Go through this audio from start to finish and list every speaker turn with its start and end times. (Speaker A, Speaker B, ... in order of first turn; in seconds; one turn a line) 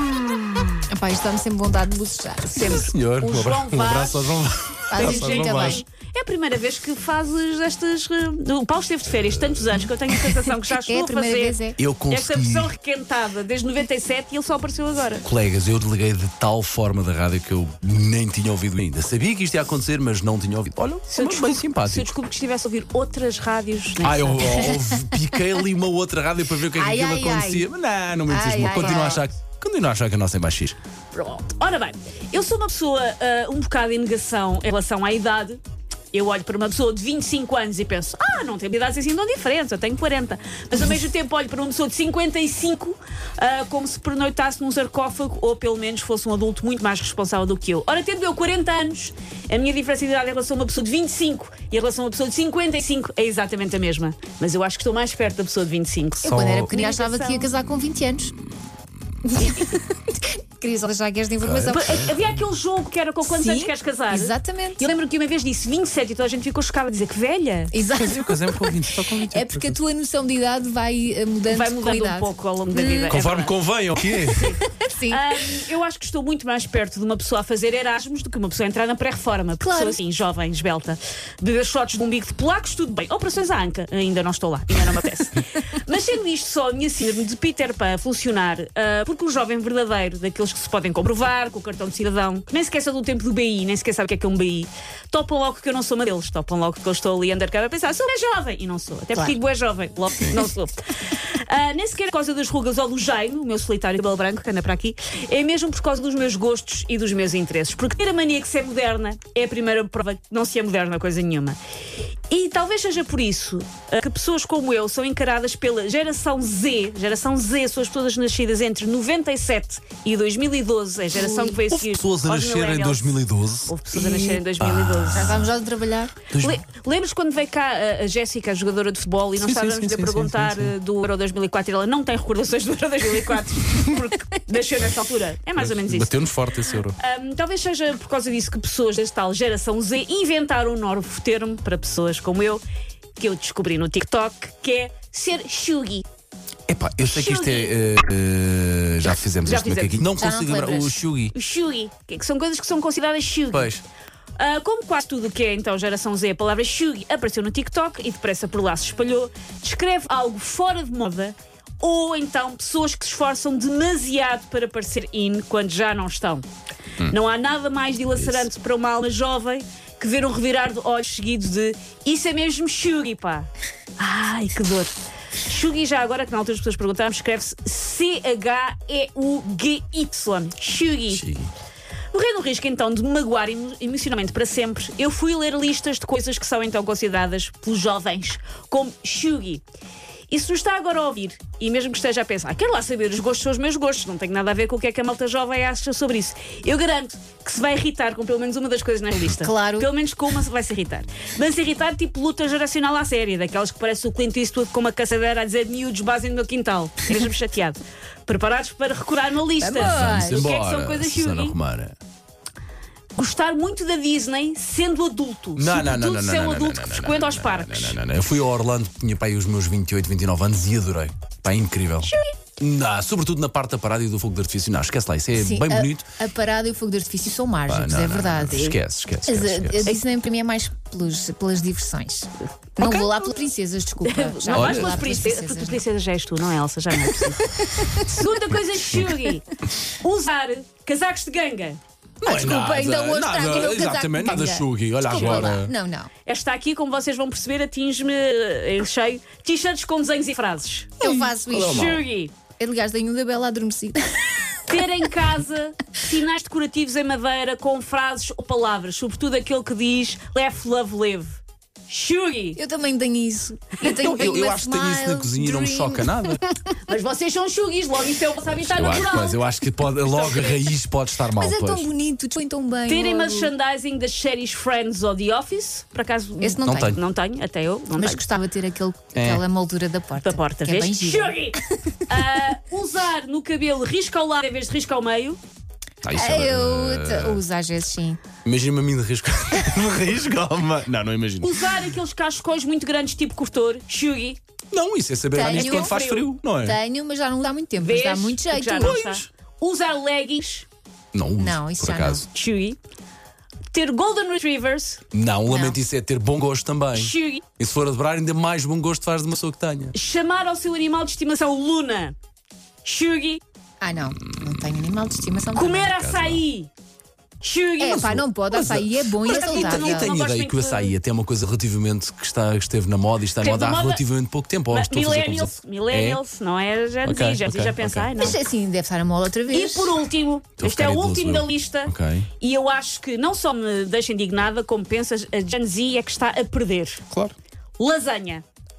Speaker A: 0.9-2.9
Speaker B: 2.5-4.3
Speaker C: 2.6-5.8
Speaker A: 4.9-5.8
Speaker B: 4.9-15.2
Speaker C: 9.1-9.9
Speaker A: 10.7-11.8
Speaker C: 11.8-12.7
Speaker C: 15.2-22.1
Speaker B: 21.1-24.4
Speaker C: 24.0-30.8
Speaker A: 24.4-25.2
Speaker A: 26.7-27.7
Speaker A: 28.3-29.3
Speaker B: 31.1-35.6
Speaker B: 36.1-57.5
Speaker A: 56.2-58.3
Speaker C: 56.2-56.7
Speaker A: 59.2-62.1
Speaker C: 61.4-62.1
Speaker B: 61.7-67.7
Speaker A: 63.2-64.9
Speaker A: 67.7-73.1
Speaker C: 67.9-69.8
Speaker B: 71.5-73.5
Speaker C: 73.0-74.5
Speaker B: 74.3-111.6
Speaker A: 74.4-75.3
Speaker A: 79.6-80.0
Speaker B: 112.3-125.4
Speaker A: 121.1-121.6
Speaker C: 121.7-125.5
Speaker A: 125.1-126.2
Speaker C: 126.2-126.6
Speaker B: 126.4-136.2
Speaker C: 129.4-130.7
Speaker C: 135.6-137.0
Speaker B: 136.9-142.6
Speaker B: 143.2-146.0
Speaker C: 146.7-151.3
Speaker B: 147.1-147.7
Speaker B: 149.3-150.0
Speaker A: 150.2-150.9
Speaker B: 151.3-153.7
Speaker C: 153.5-153.8
Speaker B: 154.4-166.4
Speaker B: 167.0-174.9
Speaker B: 175.4-181.2
Speaker C: 181.1-181.5
Speaker B: 182.1-189.6
Speaker B: 190.3-211.5
Speaker A: 199.4-199.9
Speaker A: 209.6-210.5
Speaker C: 209.7-211.9
Speaker B: 213.1-218.0
Speaker C: 215.6-226.1
Speaker B: 222.0-222.3
Speaker A: 225.3-235.8
Speaker C: 227.7-229.9
Speaker B: 232.8-233.3
Speaker B: 234.0-241.8
Speaker C: 234.5-235.1
Speaker A: 237.1-238.3
Speaker C: 242.2-245.7
Speaker A: 242.2-246.1
Speaker B: 245.1-245.6
Speaker B: 246.2-252.3
Speaker A: 251.0-252.0
Speaker C: 251.5-252.0
Speaker A: 252.6-254.6
Speaker B: 254.7-262.6
Speaker A: 262.6-266.7
Speaker C: 263.8-266.4
Speaker B: 266.9-269.4
Speaker C: 268.5-271.9
Speaker B: 270.1-270.6
Speaker A: 271.3-273.5
Speaker B: 272.9-278.2
Speaker A: 276.4-277.0
Speaker C: 276.6-277.0
Speaker A: 277.9-282.0
Speaker C: 279.1-279.4
Speaker B: 280.2-285.4
Speaker C: 286.0-287.4
Speaker A: 286.1-288.2
Speaker C: 288.4-291.8
Speaker B: 291.4-294.4
Speaker C: 294.7-296.8
Speaker A: 295.3-296.0
Speaker B: 295.5-296.2
Speaker A: 296.6-299.0
Speaker B: 297.8-300.7
Speaker C: 298.8-299.3
Speaker C: 301.1-302.2
Speaker A: 301.4-302.2
Speaker B: 302.3-302.8
Speaker B: 303.7-305.0
Speaker C: 305.1-309.9
Speaker A: 305.5-305.8
Speaker B: 306.9-307.4
Speaker B: 309.9-312.1
Speaker B: 312.8-313.4
Speaker A: 313.8-315.9
Speaker B: 315.5-316.7
Speaker C: 315.9-316.4
Speaker B: 317.4-318.2
Speaker A: 317.8-320.1
Speaker C: 318.0-326.2
Speaker B: 319.2-320.9
Speaker B: 323.4-324.0
Speaker B: 324.7-328.4
Speaker C: 327.0-328.1
Speaker A: 328.2-329.9
Speaker B: 329.5-337.0
Speaker C: 330.6-332.3
Speaker C: 337.1-337.3
Speaker B: 337.8-338.4